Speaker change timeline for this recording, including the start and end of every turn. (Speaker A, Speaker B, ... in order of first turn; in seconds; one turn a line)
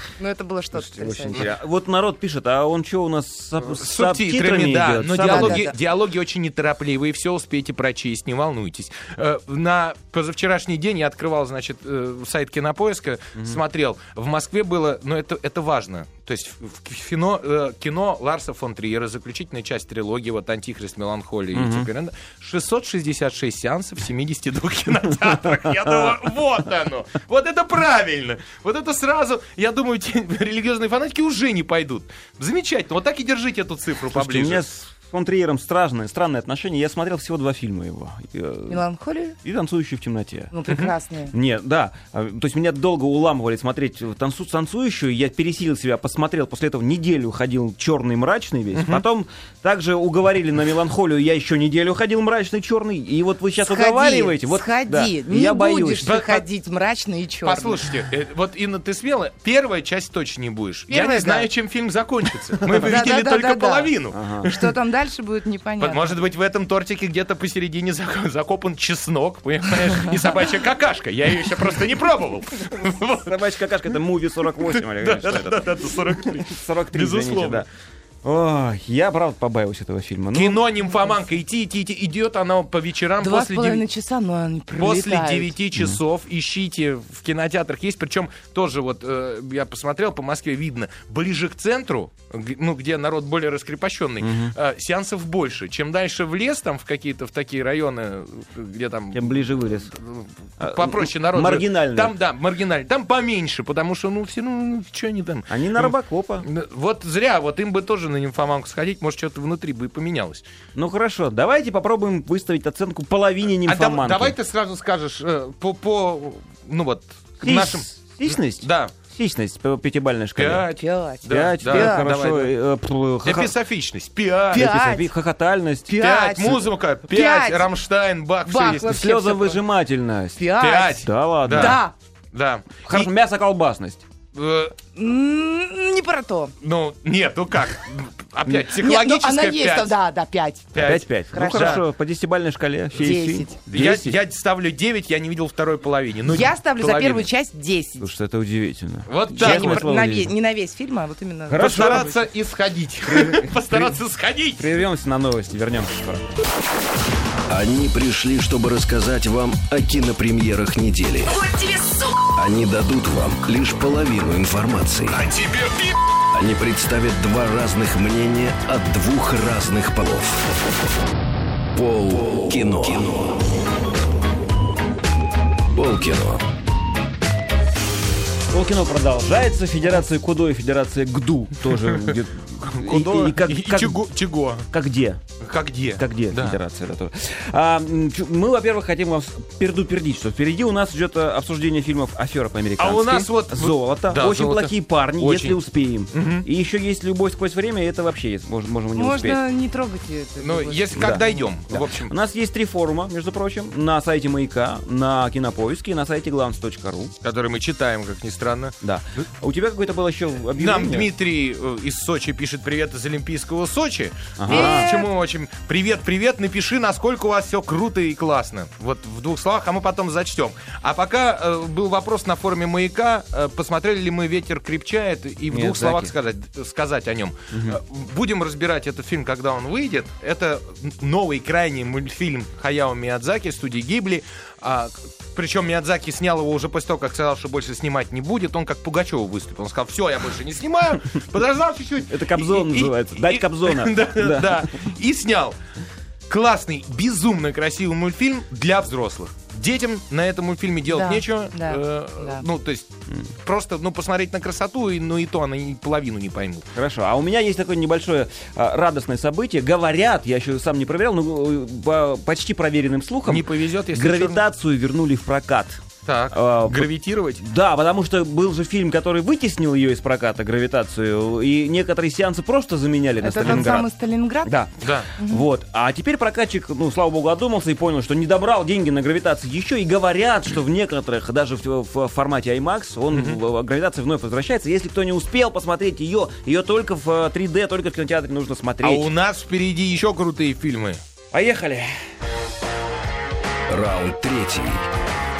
Speaker A: 0.2-1.5
Speaker B: 0.8-5.7
Speaker C: 3.6-34.6
Speaker A: 5.2-5.8
Speaker B: 21.5-21.9
Speaker B: 34.1-38.8
Speaker A: 38.7-39.4
Speaker B: 39.4-40.5
Speaker A: 40.5-41.3
Speaker B: 41.3-56.1
Speaker C: 48.8-49.0
Speaker A: 53.6-57.8
Speaker C: 56.0-56.4
Speaker C: 57.4-64.7
Speaker A: 60.9-61.5
Speaker A: 62.8-66.2
Speaker B: 64.1-64.5
Speaker C: 65.8-73.5
Speaker B: 73.2-77.7
Speaker C: 74.6-77.7
Speaker B: 78.2-80.6
Speaker C: 80.3-83.8
Speaker A: 83.2-85.5
Speaker C: 84.8-110.4
Speaker B: 94.2-94.5
Speaker B: 99.1-99.9
Speaker B: 100.6-102.2
Speaker B: 105.5-106.5
Speaker B: 110.8-114.4
Speaker C: 113.7-119.0
Speaker B: 117.4-120.7
Speaker C: 120.4-122.5
Speaker A: 120.8-122.1
Speaker B: 121.3-123.5
Speaker C: 123.2-124.7
Speaker A: 124.5-125.1
Speaker B: 124.5-125.9
Speaker A: 125.9-127.7
Speaker C: 126.0-129.0
Speaker A: 128.5-129.6
Speaker B: 128.8-131.8
Speaker A: 130.4-131.9
Speaker C: 130.6-131.8
Speaker C: 132.3-133.1
Speaker B: 132.9-134.1
Speaker C: 134.3-134.8
Speaker A: 134.9-136.5
Speaker C: 136.6-139.9
Speaker A: 138.8-141.8
Speaker C: 140.7-141.8
Speaker B: 140.8-144.2
Speaker A: 142.9-143.6
Speaker C: 143.7-147.3
Speaker A: 146.2-148.1
Speaker B: 148.0-150.3
Speaker C: 149.1-149.9
Speaker A: 149.3-152.1
Speaker B: 151.5-152.2
Speaker C: 151.6-154.7
Speaker B: 153.1-154.0
Speaker B: 154.6-156.4
Speaker D: 157.5-161.4
Speaker A: 161.4-162.1
Speaker D: 162.3-165.3
Speaker C: 165.1-166.0
Speaker D: 166.3-170.5
Speaker D: 171.7-173.4
Speaker D: 175.7-176.5
Speaker B: 178.5-184.0
Speaker C: 181.8-184.7
Speaker B: 184.7-185.2
Speaker C: 185.4-186.6
Speaker B: 186.0-199.4
Speaker C: 192.8-195.6
Speaker C: 196.1-196.5
Speaker A: 198.9-201.5
Speaker C: 200.4-202.1
Speaker B: 201.0-207.1
Speaker C: 207.2-208.8
Speaker B: 208.8-211.1
Speaker C: 210.6-245.6
Speaker B: 214.4-215.0
Speaker A: 214.5-215.1
Speaker B: 225.5-226.1
Speaker B: 227.5-227.8
Speaker B: 242.1-244.7
Speaker C: 246.3-252.9
Speaker A: 250.9-252.4
Speaker C: 253.4-256.7
Speaker B: 256.8-273.9
Speaker C: 263.3-264.4
Speaker C: 266.1-267.4
Speaker A: 273.2-274.6
Speaker B: 274.4-289.1
Speaker C: 274.8-275.1
Speaker A: 275.2-275.4
Speaker C: 283.1-283.4
Speaker C: 288.8-291.0
Speaker B: 291.3-292.0
Speaker D: 293.7-294.9